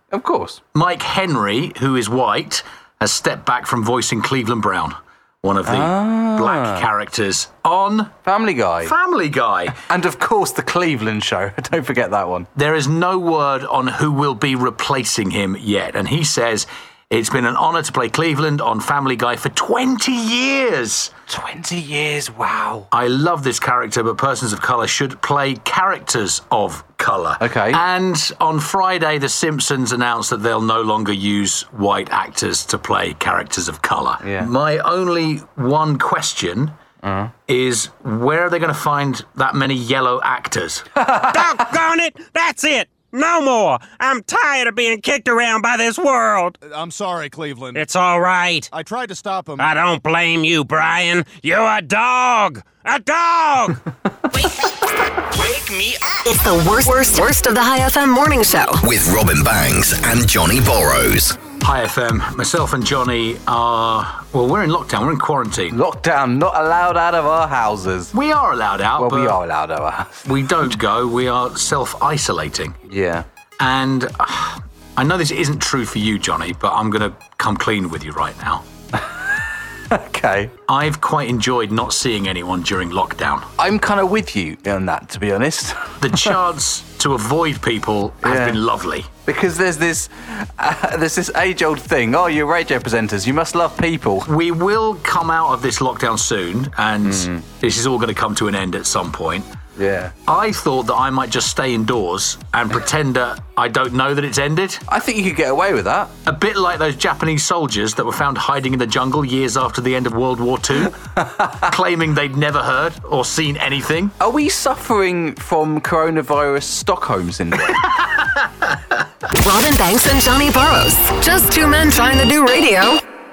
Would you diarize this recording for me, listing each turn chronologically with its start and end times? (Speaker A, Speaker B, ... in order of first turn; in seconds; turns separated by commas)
Speaker A: 0.1-0.6, Speaker B: 0.7-8.2, Speaker A: 5.7-6.9, Speaker A: 8.2-8.9, Speaker B: 8.8-9.8, Speaker A: 9.8-12.5, Speaker B: 12.6-21.1, Speaker A: 21.3-22.9, Speaker B: 22.9-36.8, Speaker A: 27.4-27.8, Speaker A: 34.2-34.5, Speaker A: 37.0-37.3, Speaker B: 37.5-40.9, Speaker A: 41.0-41.5, Speaker C: 41.3-46.6, Speaker D: 46.6-47.8, Speaker C: 47.8-48.7, Speaker D: 48.7-49.7, Speaker C: 49.6-53.8, Speaker E: 56.2-58.8, Speaker F: 58.8-61.4, Speaker B: 61.6-65.8, Speaker A: 65.7-68.1, Speaker B: 68.1-69.4, Speaker A: 69.0-70.2, Speaker B: 70.2-72.8, Speaker A: 72.9-73.3, Speaker B: 73.6-78.6, Speaker A: 79.9-80.5, Speaker B: 80.7-83.5, Speaker A: 83.6-86.3, Speaker B: 86.0-89.1, Speaker A: 88.2-88.6, Speaker A: 89.3-94.3, Speaker B: 94.3-99.5, Speaker A: 97.0-97.4, Speaker A: 99.8-100.1, Speaker B: 100.3-104.8, Speaker A: 104.9-106.1, Speaker B: 106.3-114.2, Speaker A: 114.2-117.9, Speaker E: 119.4-123.0